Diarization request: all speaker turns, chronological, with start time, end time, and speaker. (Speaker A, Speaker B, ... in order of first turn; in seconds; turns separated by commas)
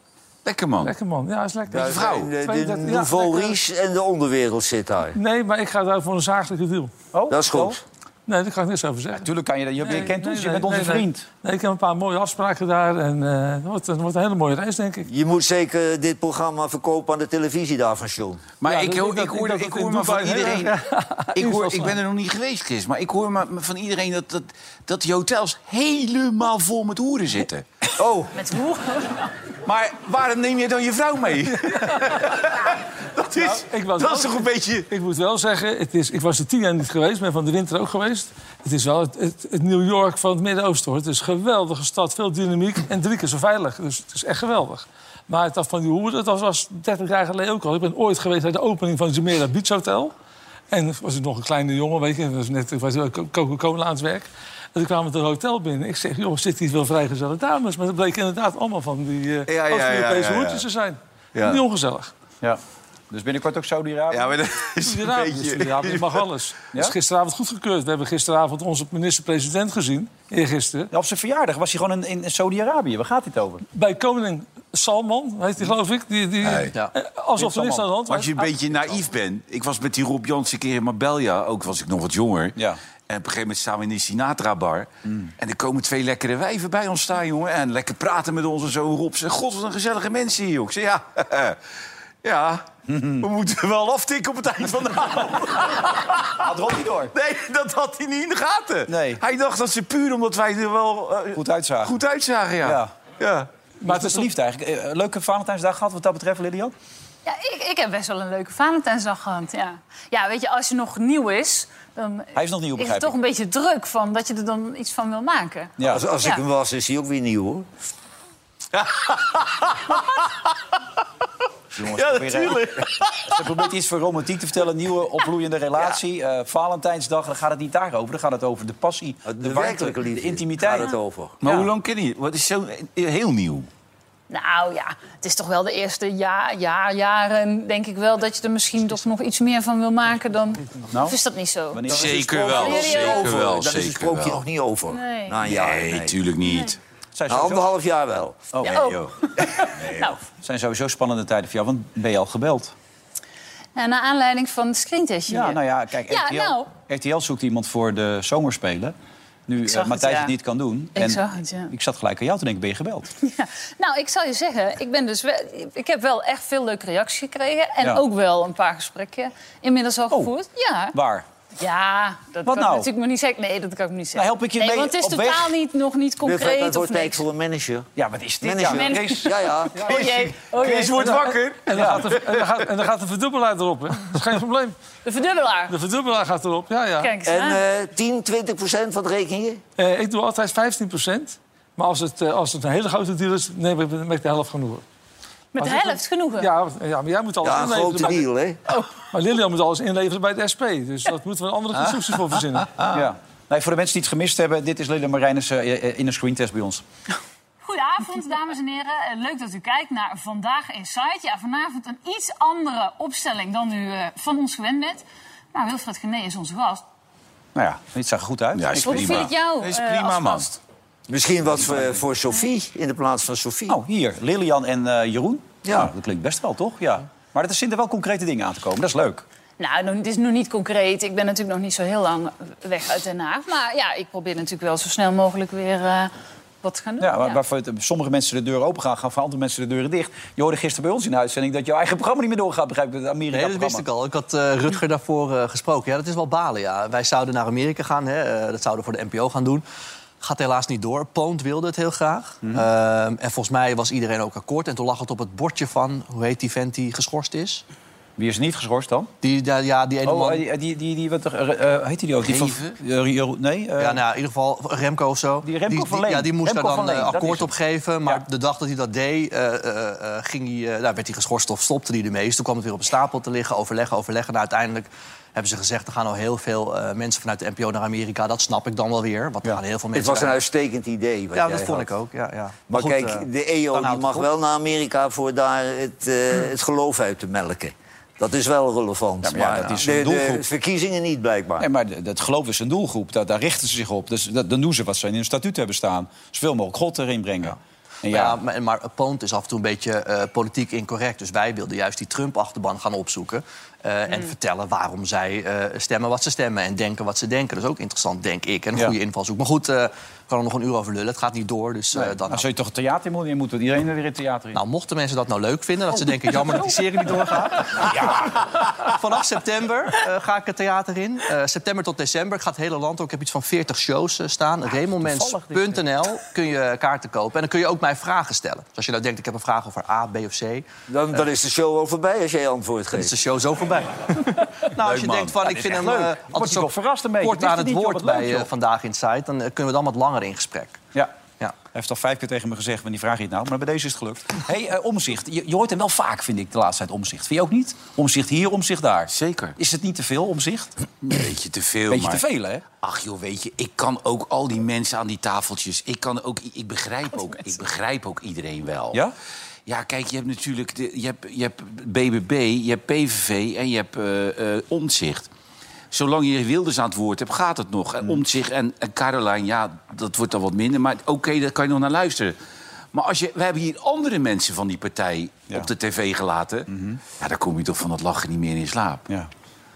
Speaker A: 0.4-0.9, Speaker B: 0.8-3.6, Speaker C: 1.7-5.2, Speaker A: 1.8-2.3, Speaker B: 5.1-6.9, Speaker D: 7.1-7.8, Speaker C: 7.3-7.8, Speaker B: 8.3-9.3, Speaker D: 9.2-11.2, Speaker B: 9.8-15.1, Speaker C: 15.1-18.5, Speaker A: 18.6-20.7, Speaker B: 18.6-22.0, Speaker D: 19.5-20.6, Speaker A: 21.4-28.3, Speaker E: 28.3-29.3, Speaker A: 29.7-34.9, Speaker B: 31.7-32.1, Speaker B: 33.3-50.1, Speaker B: 50.7-62.1, Speaker A: 59.5-60.6, Speaker A: 61.3-61.6, Speaker D: 62.4-64.3, Speaker A: 64.1-66.2, Speaker B: 64.8-70.9, Speaker D: 70.9-73.7, Speaker B: 73.7-78.5, Speaker A: 76.4-76.7, Speaker D: 77.4-77.8, Speaker A: 78.1-82.6, Speaker A: 83.1-91.6, Speaker D: 85.1-85.3, Speaker A: 92.2-96.4, Speaker D: 92.9-93.3, Speaker D: 96.4-97.1, Speaker A: 97.1-103.5, Speaker D: 98.9-99.2, Speaker D: 101.3-102.0, Speaker D: 102.6-102.9, Speaker D: 103.8-106.7, Speaker B: 103.8-104.3, Speaker E: 107.2-116.4, Speaker D: 112.3-113.1, Speaker D: 115.8-116.0, Speaker C: 115.9-117.7, Speaker A: 118.8-120.3, Speaker D: 121.8-130.9, Speaker A: 121.8-123.5, Speaker C: 129.2-131.6, Speaker A: 131.4-133.7, Speaker E: 134.3-141.8, Speaker D: 140.9-141.2, Speaker D: 141.7-142.6, Speaker A: 141.9-144.4, Speaker C: 142.1-146.2, Speaker E: 142.4-143.3, Speaker E: 144.9-145.4, Speaker A: 145.4-146.8, Speaker D: 147.1-147.7, Speaker C: 147.3-149.0, Speaker D: 148.5-148.9, Speaker E: 148.6-149.1, Speaker E: 149.8-150.2, Speaker D: 150.4-152.7, Speaker E: 153.8-156.7, Speaker D: 155.3-158.9, Speaker D: 159.5-163.1, Speaker E: 159.6-160.3, Speaker E: 160.9-161.7, Speaker E: 163.2-170.9, Speaker D: 170.9-171.2, Speaker E: 171.6-177.2, Speaker D: 172.4-172.9, Speaker D: 174.1-175.6, Speaker C: 176.2-177.9, Speaker D: 177.9-179.7, Speaker C: 178.4-179.9, Speaker E: 178.7-181.1, Speaker A: 180.1-182.5, Speaker B: 180.9-184.8, Speaker D: 181.7-182.2, Speaker E: 185.1-185.8, Speaker B: 185.7-187.1, Speaker E: 187.0-187.6, Speaker C: 187.2-189.6, Speaker B: 189.8-194.8, Speaker E: 195.5-196.5, Speaker B: 195.6-198.3, Speaker C: 197.4-198.6, Speaker B: 199.0-202.8, Speaker D: 202.9-206.8, Speaker E: 207.6-216.8, Speaker D: 217.6-219.3, Speaker A: 218.5-220.5, Speaker E: 218.8-220.6, Speaker C: 221.1-223.8, Speaker D: 223.7-229.2, Speaker E: 229.6-236.1, Speaker E: 236.6-237.4, Speaker D: 237.0-243.8, Speaker F: 243.3-249.6, Speaker F: 250.2-257.6, Speaker D: 258.2-259.1, Speaker F: 259.2-260.4, Speaker D: 260.1-264.0, Speaker A: 262.2-262.8, Speaker F: 263.8-280.4, Speaker D: 265.4-267.5, Speaker C: 279.9-281.9, Speaker F: 281.3-283.2, Speaker C: 282.7-291.7, Speaker D: 283.7-284.3, Speaker D: 289.2-290.4, Speaker D: 291.6-298.4, Speaker F: 298.1-312.4, Speaker D: 311.9-314.6, Speaker F: 314.5-318.3, Speaker D: 316.0-316.6, Speaker F: 318.8-330.6, Speaker D: 325.0-325.8, Speaker C: 330.9-333.1, Speaker F: 332.9-340.8, Speaker A: 334.8-335.4, Speaker D: 335.4-338.5, Speaker D: 341.7-350.7, Speaker A: 349.1-349.6, Speaker A: 351.0-359.0, Speaker D: 351.9-352.6, Speaker A: 359.6-365.3, Speaker A: 365.9-372.4, Speaker A: 372.9-379.0, Speaker D: 376.7-377.0